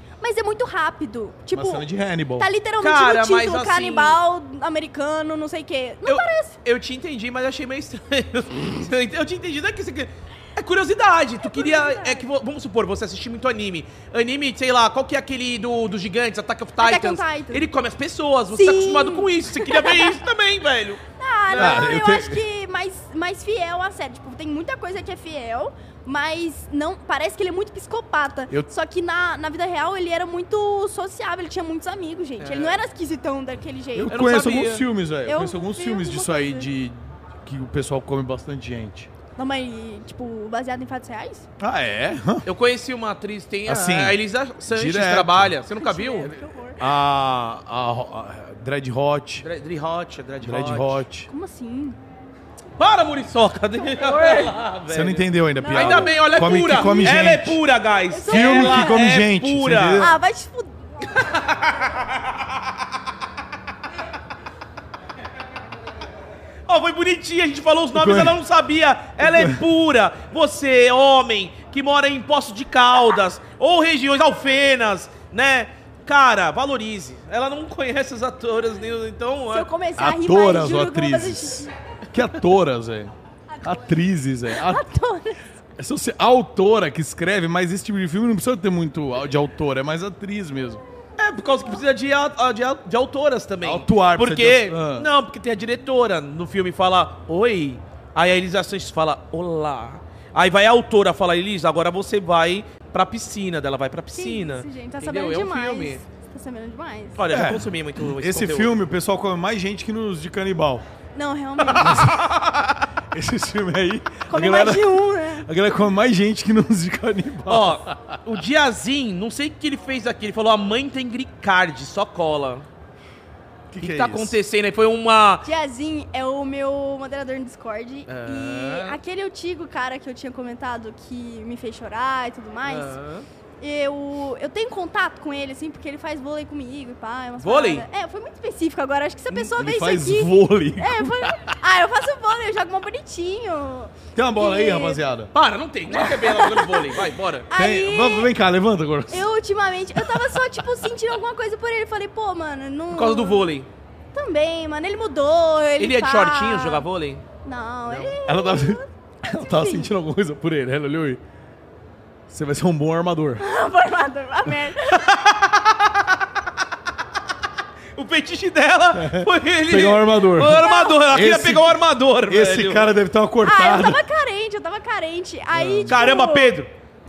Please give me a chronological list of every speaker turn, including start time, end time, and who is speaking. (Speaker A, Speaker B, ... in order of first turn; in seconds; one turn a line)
Speaker A: 0.2-1.9
Speaker B: 1.5-2.5
Speaker A: 2.4-6.5
Speaker C: 2.8-4.2
Speaker C: 6.0-21.8
Speaker A: 11.4-12.2
Speaker A: 16.8-17.7
Speaker A: 18.5-20.2
Speaker A: 21.2-34.2
Speaker B: 21.6-22.4
Speaker C: 32.4-32.8
Speaker B: 33.9-39.1
Speaker C: 34.1-34.8
Speaker A: 35.2-36.7
Speaker A: 39.4-41.5
Speaker B: 41.6-42.5
Speaker C: 42.5-46.3
Speaker B: 43.7-45.6
Speaker A: 45.8-46.8
Speaker B: 46.8-49.5
Speaker C: 49.4-51.0
Speaker B: 50.4-51.3
Speaker A: 51.3-52.0
Speaker C: 52.8-60.1
Speaker A: 53.9-54.5
Speaker B: 54.9-57.6
Speaker A: 55.6-57.3
Speaker A: 58.1-59.0
Speaker B: 58.3-60.2
Speaker A: 60.0-60.7
Speaker C: 61.1-62.2
Speaker C: 66.7-79.7
Speaker B: 67.9-68.4
Speaker B: 69.2-69.6
Speaker A: 79.5-81.7
Speaker B: 80.0-84.8
Speaker A: 83.5-85.4
Speaker B: 85.8-90.8
Speaker C: 91.2-106.0
Speaker B: 93.6-95.1
Speaker A: 104.1-107.2
Speaker C: 107.2-108.8
Speaker B: 107.3-110.8
Speaker A: 111.1-112.1
Speaker C: 111.7-112.1
Speaker B: 111.8-118.2
Speaker A: 114.3-115.5
Speaker C: 117.5-122.6
Speaker B: 123.7-124.4
Speaker C: 123.8-125.5
Speaker A: 125.4-133.0
Speaker C: 128.1-129.0
Speaker C: 132.7-133.3
Speaker A: 133.6-145.0
Speaker C: 137.4-137.8
Speaker B: 139.4-141.5
Speaker B: 144.1-145.3
Speaker C: 145.3-147.5
Speaker A: 145.9-147.0
Speaker A: 147.5-148.3
Speaker B: 147.5-149.3
Speaker A: 149.1-153.5
Speaker B: 150.0-150.3
Speaker C: 152.9-153.7
Speaker A: 154.1-156.8
Speaker C: 155.8-157.2
Speaker A: 157.4-159.9
Speaker C: 157.9-158.1
Speaker B: 158.2-161.2
Speaker B: 162.3-163.4
Speaker A: 163.4-165.1
Speaker C: 164.9-166.0
Speaker C: 167.9-172.9
Speaker B: 168.9-174.0
Speaker A: 170.5-171.1
Speaker A: 173.4-176.6
Speaker B: 175.5-176.1
Speaker C: 175.9-176.7